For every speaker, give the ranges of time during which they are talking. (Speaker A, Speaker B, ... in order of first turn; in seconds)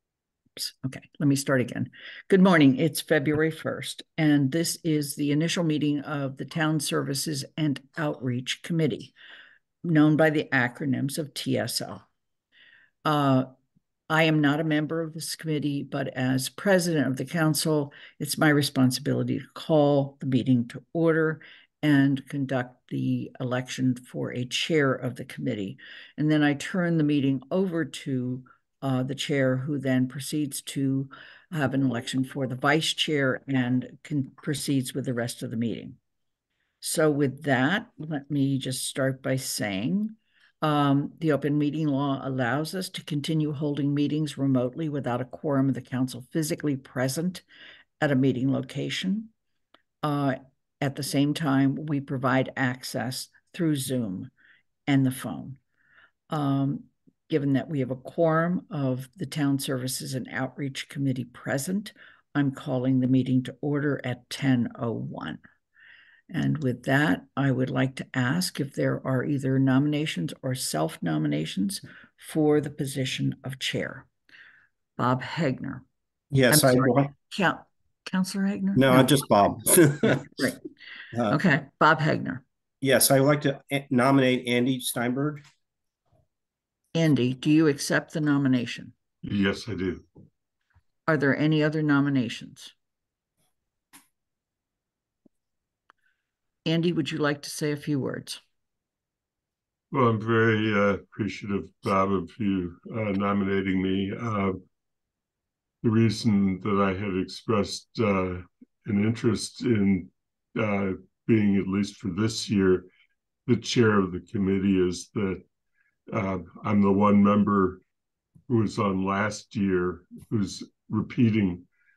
Speaker A: 0.6-9.1, 9.8-12.1, 13.1-13.5, 14.1-36.0, 36.8-47.4, 48.0-49.3, 50.0-54.3, 54.9-55.6, 56.3-65.4, 66.3-74.1, 75.0-75.8, 76.5-80.6, 81.3-82.4, 86.9-88.9, 91.1-92.7, 96.7-98.4
Speaker B: 76.3-77.1, 78.8-80.4, 82.8-85.4
Speaker C: 89.2-90.0, 99.9-104.6, 105.8-112.9, 113.5-115.4, 116.1-117.8, 118.5-121.7